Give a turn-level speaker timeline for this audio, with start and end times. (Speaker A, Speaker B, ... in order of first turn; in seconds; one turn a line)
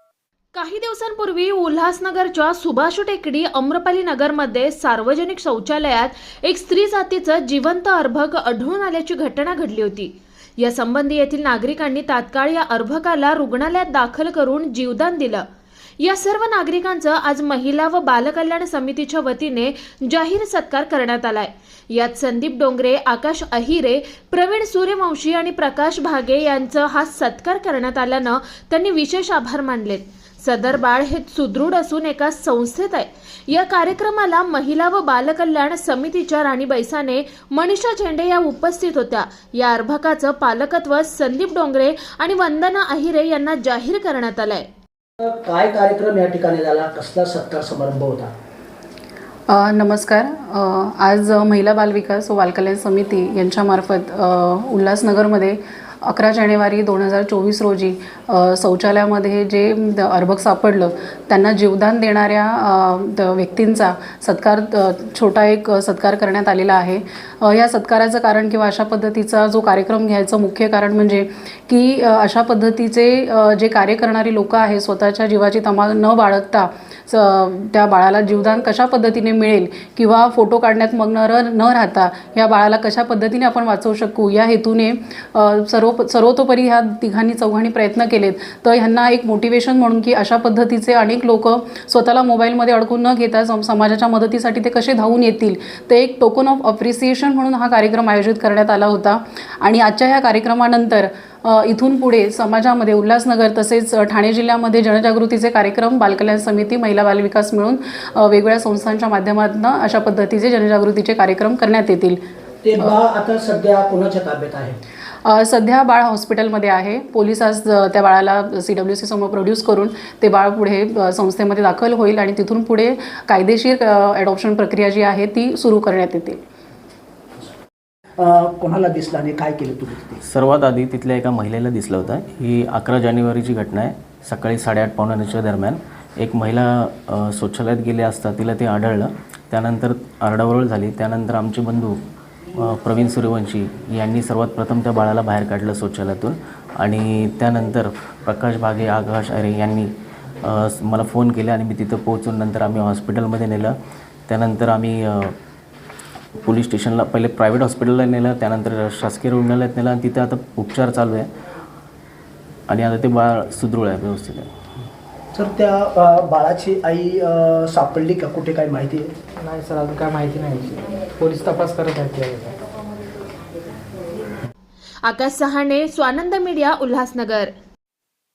Speaker A: 0.5-15.4
Speaker A: 16.0-44.6
Speaker B: 45.2-48.3
Speaker C: 49.5-112.2
Speaker B: 112.6-114.8
Speaker C: 115.2-126.4
Speaker B: 128.2-130.2
Speaker D: 130.2-142.0
Speaker D: 142.5-149.9
Speaker D: 150.4-153.7
Speaker D: 154.3-155.3
Speaker D: 156.3-161.3
Speaker D: 162.7-164.5
Speaker B: 165.3-169.1
Speaker E: 169.4-172.6
Speaker A: 175.0-177.5